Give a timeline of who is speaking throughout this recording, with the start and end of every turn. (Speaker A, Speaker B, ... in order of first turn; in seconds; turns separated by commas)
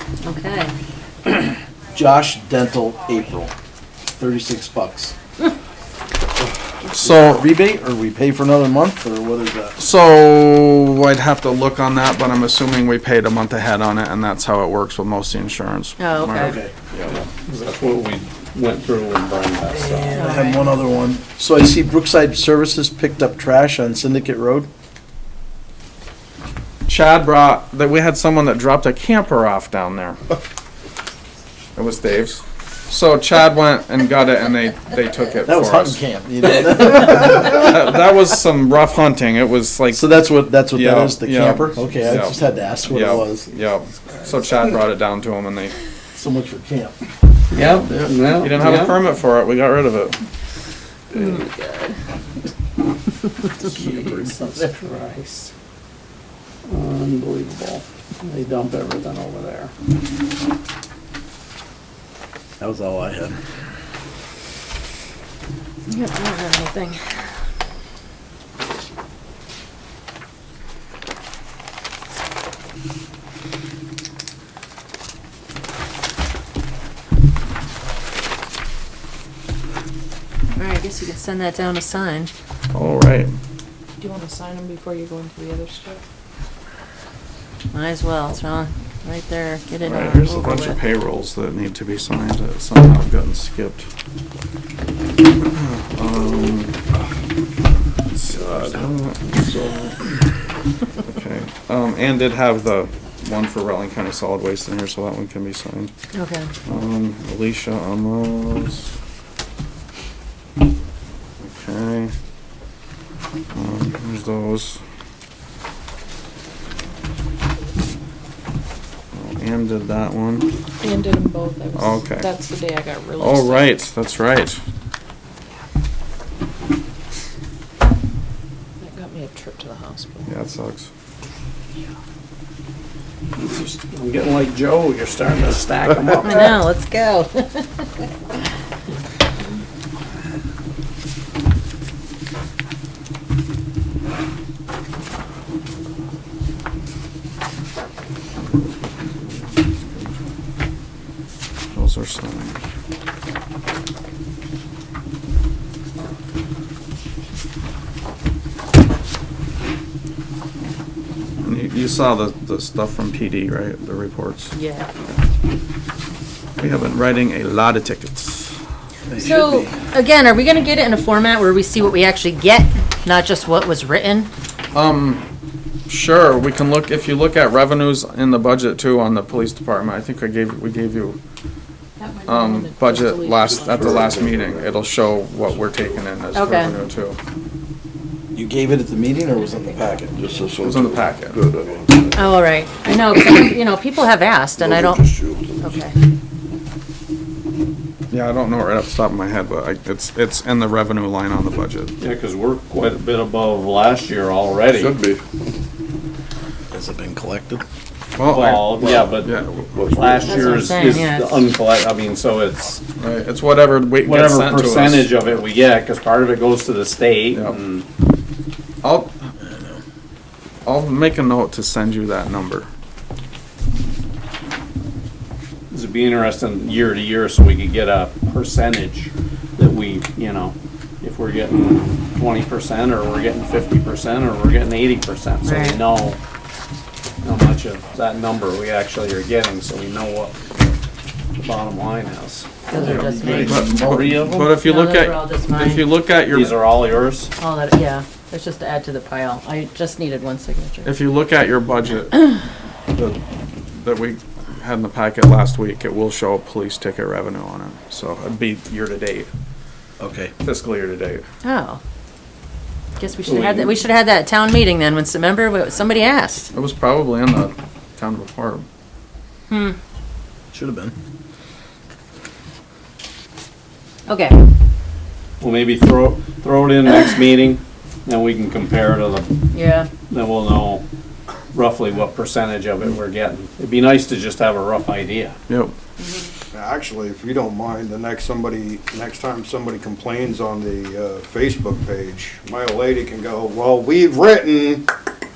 Speaker A: 0.2-0.7, Speaker B: 1.9-3.5, Speaker B: 4.2-5.1, Speaker C: 6.9-7.4, Speaker B: 7.0-9.8, Speaker C: 9.8-17.1, Speaker A: 16.0-16.6, Speaker B: 16.4-16.7, Speaker D: 17.1-20.2, Speaker B: 19.7-24.7, Speaker A: 20.1-20.8, Speaker C: 26.9-30.2, Speaker C: 31.8-40.1, Speaker B: 35.4-37.7, Speaker B: 39.9-43.5, Speaker C: 40.7-45.8, Speaker B: 46.1-46.9, Speaker D: 47.5-49.0, Speaker C: 47.7-50.2, Speaker A: 51.2-51.9, Speaker D: 53.6-55.5, Speaker B: 53.6-54.6, Speaker D: 56.7-59.7, Speaker B: 62.6-63.4, Speaker A: 65.9-67.0, Speaker A: 80.5-82.3, Speaker C: 82.7-83.3, Speaker E: 84.0-86.0, Speaker A: 87.7-90.8, Speaker C: 89.8-93.8, Speaker C: 95.4-96.8, Speaker C: 98.1-100.1, Speaker D: 98.4-98.8, Speaker C: 101.0-105.9, Speaker A: 106.1-106.5, Speaker C: 106.7-108.9, Speaker C: 111.4-112.1, Speaker C: 113.5-114.8, Speaker C: 119.1-120.5, Speaker E: 120.8-123.7, Speaker C: 121.7-122.3, Speaker C: 123.2-124.6, Speaker E: 128.8-130.2, Speaker C: 130.2-130.9, Speaker D: 133.4-136.5, Speaker A: 136.2-138.1, Speaker C: 148.4-150.2, Speaker C: 151.7-152.6, Speaker C: 161.4-164.5, Speaker A: 164.5-164.9, Speaker C: 166.6-168.6, Speaker B: 169.1-169.8, Speaker A: 169.2-174.3, Speaker C: 174.7-175.2, Speaker C: 175.9-181.2, Speaker E: 182.0-184.1, Speaker C: 182.2-187.2, Speaker F: 183.5-186.0, Speaker A: 186.3-186.7, Speaker B: 188.3-190.2, Speaker F: 190.2-192.3, Speaker C: 190.6-191.4, Speaker A: 192.2-195.1, Speaker F: 194.6-195.8, Speaker A: 195.6-195.9, Speaker C: 198.1-201.9, Speaker D: 202.0-204.9, Speaker F: 204.7-205.2, Speaker B: 206.7-207.6, Speaker C: 208.2-210.0, Speaker D: 208.2-209.3, Speaker F: 208.7-209.2, Speaker F: 209.8-210.8, Speaker D: 209.9-212.8, Speaker A: 210.2-211.4, Speaker C: 213.0-215.4, Speaker D: 214.0-217.8, Speaker C: 217.3-217.6, Speaker C: 218.8-219.2, Speaker B: 219.4-219.8, Speaker C: 220.7-222.7, Speaker D: 225.7-236.2, Speaker A: 235.4-235.8, Speaker D: 237.2-240.6, Speaker D: 241.3-242.5, Speaker A: 242.7-243.8, Speaker B: 242.7-244.4, Speaker C: 242.9-246.7, Speaker D: 243.3-244.4, Speaker A: 244.3-245.8, Speaker D: 246.2-247.3, Speaker A: 247.4-250.9, Speaker C: 250.8-252.3, Speaker C: 252.9-253.2, Speaker C: 253.7-259.3, Speaker B: 260.0-260.3, Speaker C: 260.4-261.2, Speaker A: 261.4-261.8, Speaker A: 263.0-266.5, Speaker D: 263.2-263.7, Speaker C: 266.5-268.7, Speaker A: 269.5-269.8, Speaker B: 270.5-270.9, Speaker A: 274.1-274.4, Speaker D: 275.4-279.3, Speaker A: 279.5-279.9, Speaker D: 280.1-280.8, Speaker D: 281.5-285.4, Speaker C: 285.5-285.8, Speaker A: 286.0-286.3, Speaker G: 286.6-294.9